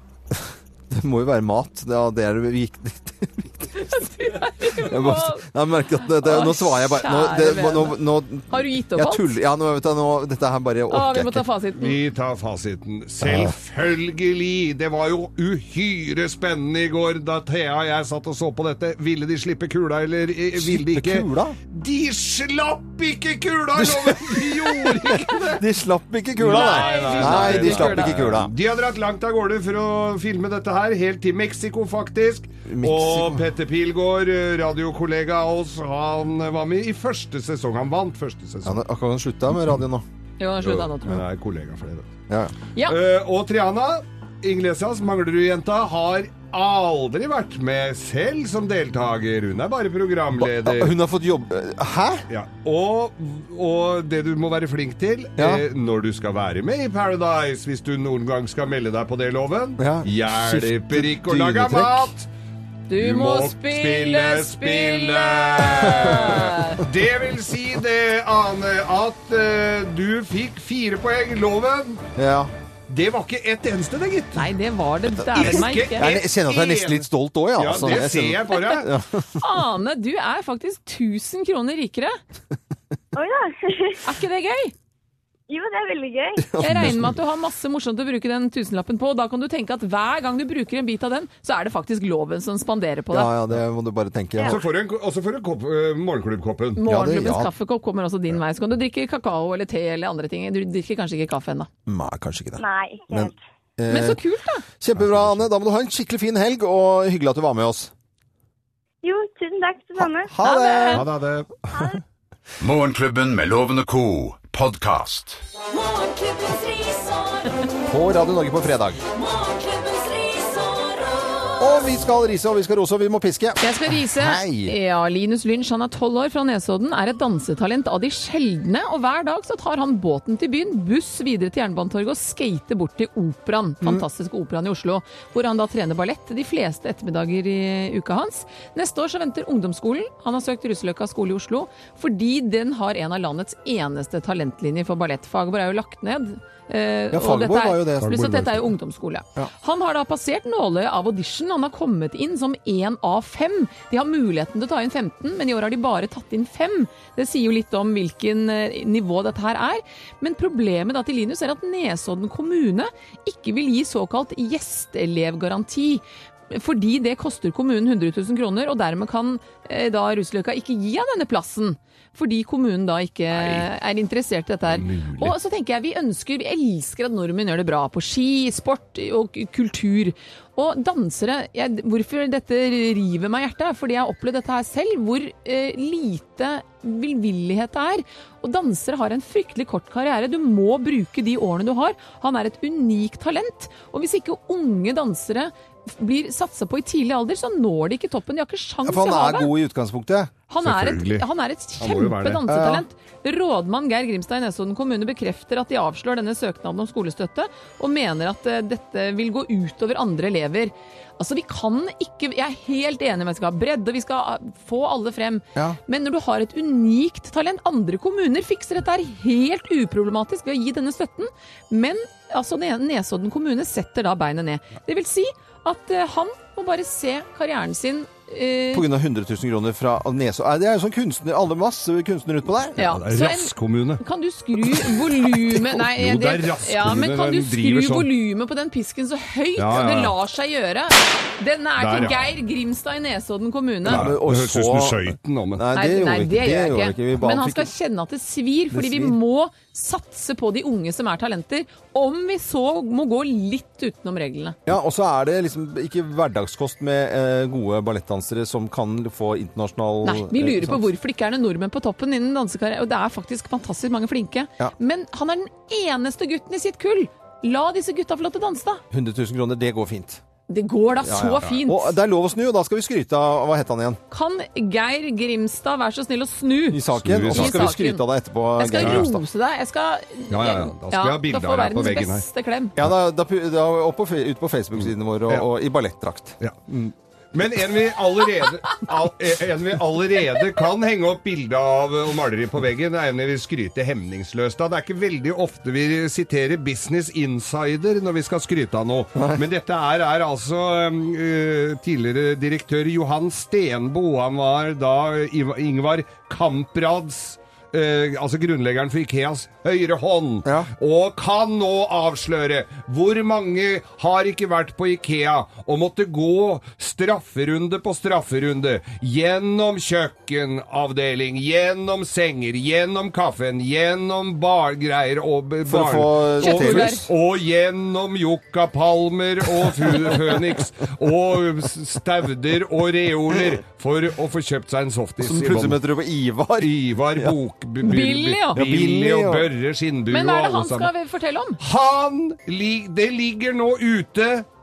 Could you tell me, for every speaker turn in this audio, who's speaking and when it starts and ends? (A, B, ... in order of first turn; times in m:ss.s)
0:00.3-0:04.0 A
0:03.8-0:05.5 B
0:04.6-0:11.4 A
0:06.0-0:09.4 B
0:10.9-0:12.0 B
0:11.8-0:25.6 C
0:13.2-0:13.5 A
0:20.6-0:21.6 A
0:23.8-0:28.5 A
0:26.4-0:38.8 C
0:26.5-0:28.2 B
0:32.7-0:33.5 A
0:38.6-0:40.0 A
0:40.4-0:41.2 B
0:40.6-0:42.1 C
0:42.3-0:42.5 A
0:42.8-0:50.9 C
0:50.4-0:52.2 A
0:52.3-1:02.3 C
0:55.4-0:55.6 A
0:59.8-1:02.1 A
1:02.9-1:06.8 B
1:03.0-1:12.0 C
1:12.2-1:12.5 A
1:12.9-1:14.5 C
1:14.4-1:16.1 B
1:15.3-1:19.4 A
1:15.4-1:18.9 C
1:19.4-1:22.2 B
1:23.1-1:24.0 D
1:24.0-1:24.7 B
1:25.5-1:26.5 D
1:26.4-1:27.2 A
1:26.6-1:33.3 B
1:33.1-1:34.6 A
1:34.4-1:36.8 C
1:36.8-1:41.7 B
1:36.8-1:37.5 A
1:41.9-1:44.2 A
1:42.6-1:43.4 D
1:43.9-1:44.6 B
1:44.8-1:47.9 A
1:45.0-1:45.5 C
1:49.0-1:50.4 D
1:50.0-1:51.1 A
1:50.4-1:51.0 B
1:50.9-1:51.5 C
1:51.7-1:52.0 D
1:52.6-1:55.4 E
1:55.9-1:57.0 F
1:57.9-1:59.0 A
1:59.4-2:00.9 F
2:01.6-2:04.8 A
2:03.6-3:19.6 B
2:27.1-2:28.4 A
2:28.0-2:28.6 C
2:53.3-2:53.7 C
2:54.7-2:55.4 C
3:18.8-3:20.3 A
3:20.5-3:48.9 B
3:20.6-3:21.3 C
3:21.8-3:22.4 C
3:22.5-3:22.8 A
3:48.7-3:52.9 A
3:52.8-4:04.1 B
3:52.8-3:54.0 C
3:55.9-3:58.1 C
3:59.6-4:00.1 C
4:01.8-4:02.2 C
4:03.8-4:07.7 A
4:03.9-4:05.6 C
4:05.8-4:14.6 B
4:08.7-4:09.2 A
4:14.7-4:20.9 A
4:20.0-4:28.8 B
4:28.9-4:30.2 A
4:30.5-4:32.0 B
4:31.0-4:34.0 A
4:34.1-4:38.0 B
4:36.7-4:39.2 A
4:37.0-4:37.7 C
4:38.6-4:42.7 B
4:40.3-4:42.3 C
4:42.8-4:46.9 A
4:44.8-4:45.5 C
4:47.3-5:35.8 C
5:25.7-5:27.1 A
5:26.4-5:27.0 B
5:35.2-5:37.3 A
5:36.6-5:40.9 C
5:37.8-5:38.6 B
5:38.6-5:39.5 A
5:40.1-5:41.6 B
5:41.6-5:44.5 C